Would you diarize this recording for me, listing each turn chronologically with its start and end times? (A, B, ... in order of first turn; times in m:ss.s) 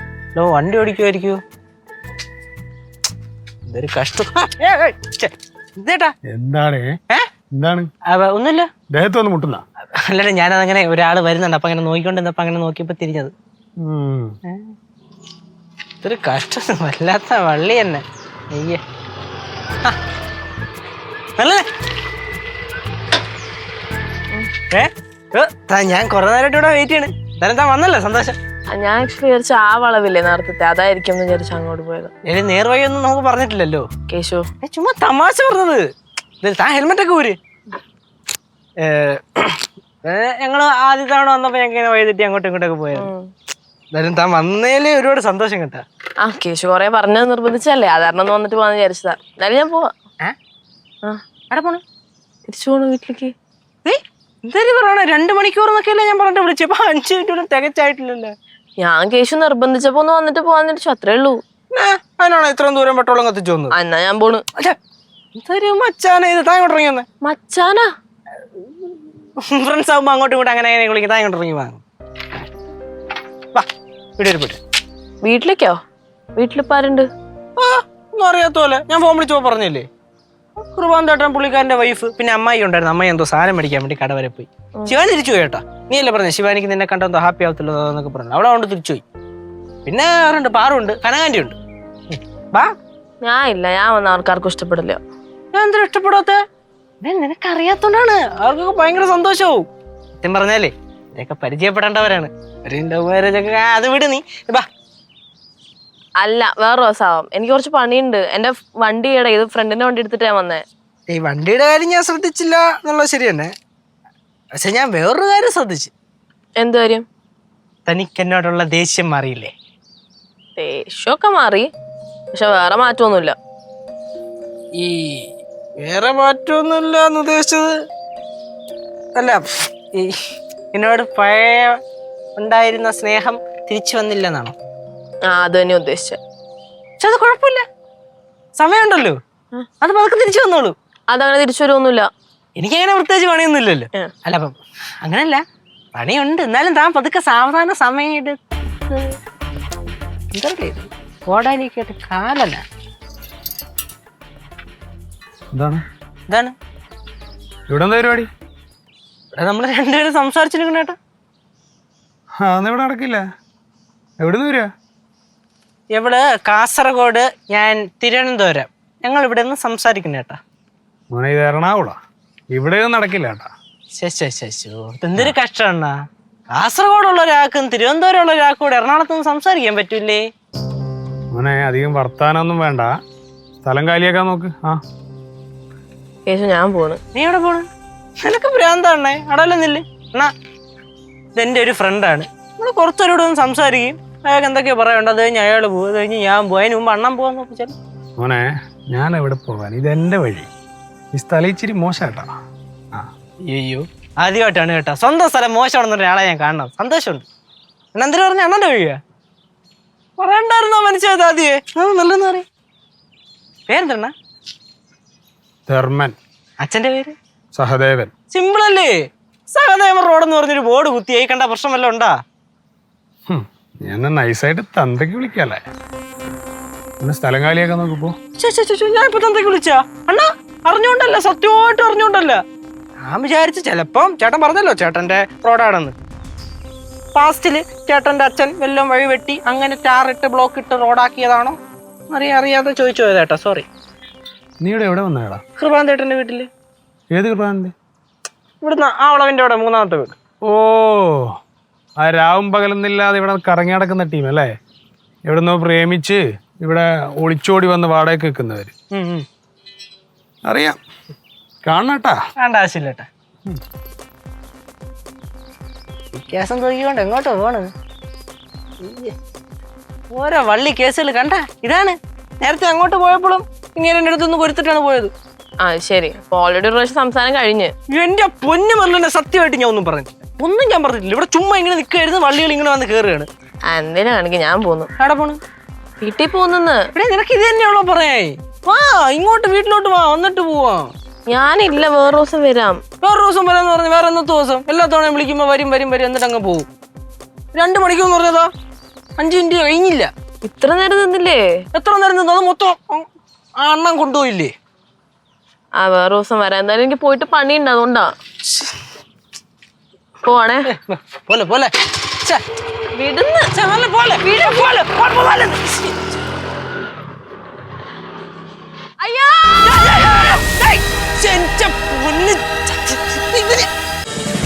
0:00.3-0:01.4 A
0:03.7-0:06.1 A
0:06.3-0:06.9 B
0:07.6-0:07.9 B
0:08.0-0:08.7 A
0:08.9-0:09.6 B
0:10.0-0:13.3 A
0:13.8-0:14.3 B
0:14.5-0:14.7 A
0:16.0-0:18.8 A
0:21.4-0:21.6 A
0:24.7-0:28.4 A
0:28.7-0:32.1 C
0:32.2-0:33.9 A
0:34.1-0:34.5 C
0:34.6-0:35.9 A
0:36.4-0:37.4 A
0:38.8-0:43.1 A
0:42.9-0:43.3 C
0:43.9-0:45.8 A
0:46.2-0:49.9 C
0:51.5-0:51.8 A
0:52.4-0:53.3 C
0:53.8-0:58.3 A
0:58.8-1:01.4 C
1:01.7-1:03.7 A
1:03.7-1:04.4 C
1:05.4-1:07.1 A
1:07.2-1:07.9 C
1:08.6-1:11.8 A
1:14.2-1:14.6 A
1:15.2-1:15.8 C
1:16.4-1:17.1 C
1:17.6-1:19.9 A
1:20.6-1:29.0 A
1:29.8-1:31.6 A
1:32.1-1:32.7 A
1:33.2-1:35.0 C
1:35.5-1:36.4 A
1:37.0-1:39.7 A
1:40.2-1:44.6 A
1:46.2-1:50.6 C
1:51.1-1:53.5 A
1:54.6-1:55.9 A
1:56.6-1:57.0 C
1:57.9-1:59.5 A
2:00.6-2:01.7 C
2:02.3-2:03.4 C
2:04.8-2:07.7 A
2:09.2-2:10.2 A
2:10.7-2:11.8 A
2:12.4-2:14.5 A
2:15.3-2:16.2 C
2:17.0-2:17.6 A
2:18.6-2:19.2 A
2:19.8-2:20.7 A
2:21.1-2:22.1 C
2:22.6-2:25.4 A
2:25.9-2:29.2 A
2:30.3-2:32.6 A
2:35.5-2:35.8 B
2:36.3-2:36.5 A
2:37.7-2:38.3 B
2:39.3-2:41.0 A
2:42.4-2:43.2 B
2:44.2-2:44.7 B
2:45.9-2:50.4 A
2:51.1-2:51.9 B
2:52.5-2:53.5 B
2:54.0-2:55.9 A
2:56.5-3:00.2 A
3:01.3-3:02.9 B
3:03.6-3:04.8 B
3:06.2-3:07.0 C
3:07.1-3:07.7 A
3:08.2-3:10.3 A
3:11.4-3:17.8 A
3:18.2-3:20.5 B
3:21.1-3:22.3 B
3:23.4-3:27.2 A
3:27.9-3:29.0 A
3:30.2-3:32.4 A
3:33.7-3:34.1 A
3:35.7-3:36.1 B
3:36.6-3:37.2 A
3:37.5-3:38.1 B
3:38.3-3:39.0 A
3:39.5-3:42.2 A
3:43.3-3:45.6 B
3:47.0-3:48.2 B
3:48.4-3:52.4 A
3:53.0-3:55.9 A
3:57.1-4:01.6 A
4:02.1-4:03.7 A
4:04.6-4:05.4 B
4:05.6-4:06.5 A
4:07.1-4:07.7 B
4:08.6-4:10.2 A
4:10.4-4:11.3 B
4:12.0-4:14.5 B
4:15.3-4:18.7 B
4:18.9-4:19.2 A
4:20.5-4:20.8 B
4:21.6-4:22.2 B
4:22.4-4:23.1 A
4:26.1-4:27.7 A
4:28.8-4:29.1 A
4:30.1-4:35.1 A
4:35.6-4:37.7 C
4:37.9-4:43.3 A
4:43.7-4:44.9 C
4:45.0-4:45.4 A
4:46.0-4:46.8 C
4:47.0-4:50.9 A
4:51.3-4:52.8 C
4:53.0-4:56.7 A
4:57.5-4:58.5 A
4:59.2-5:00.1 A
5:00.4-5:01.6 C
5:01.7-5:03.1 A
5:03.6-5:04.5 A
5:05.8-5:08.1 C
5:10.2-5:10.7 C
5:10.7-5:11.7 A
5:12.9-5:13.5 C
5:13.5-5:16.2 A
5:14.2-5:14.8 C
5:19.0-5:19.8 C
5:19.6-5:23.7 A